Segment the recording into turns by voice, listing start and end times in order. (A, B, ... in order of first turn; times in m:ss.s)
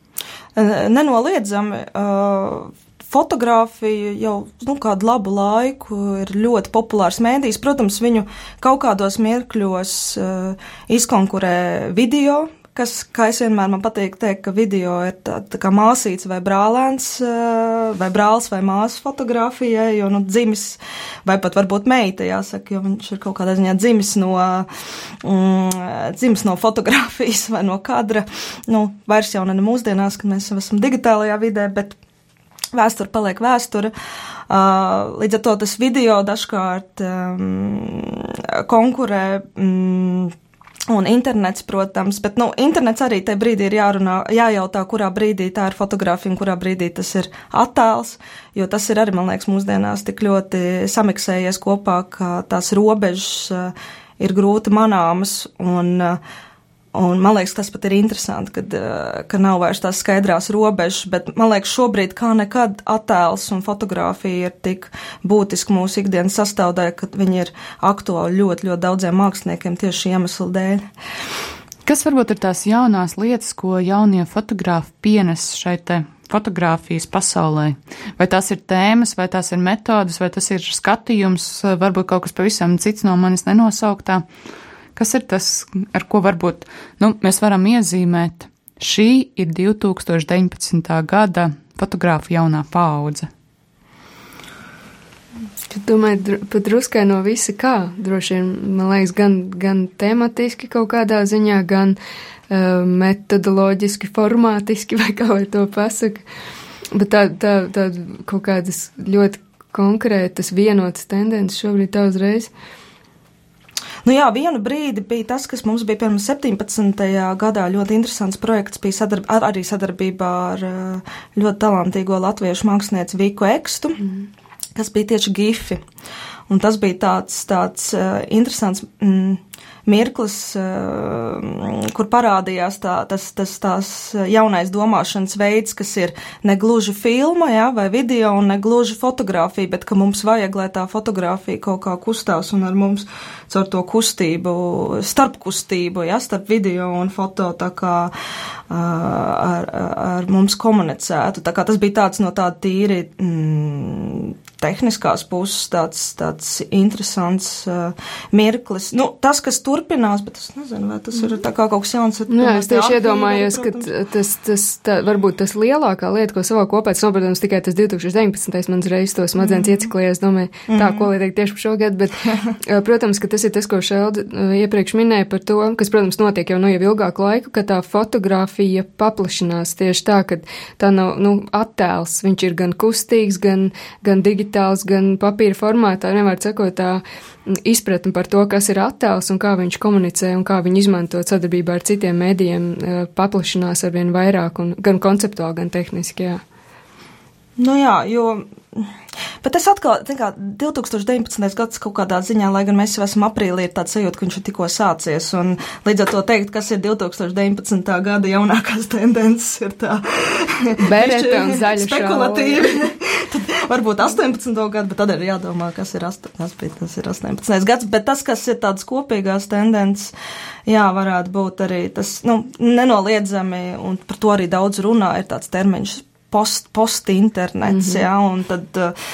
0:00.5-0:24.7 A
0:25.2-0:32.0 A
0:32.7-0:33.9 A
0:34.5-0:40.4 A
0:40.9-0:56.2 A
0:56.9-1:10.8 A
1:11.9-1:24.2 B
1:25.0-1:33.3 B
1:35.7-1:42.0 C
1:42.5-1:46.2 C
1:46.9-1:52.5 C
1:54.0-2:04.1 A
2:04.8-2:05.8 A
2:06.5-2:28.1 A
2:28.7-2:43.9 A
2:42.3-3:16.4 C
2:49.4-2:49.9 A
2:50.7-2:51.1 A
3:17.6-3:40.1 A
3:30.8-3:32.8 C
3:40.7-3:48.9 A
3:47.7-3:48.0 C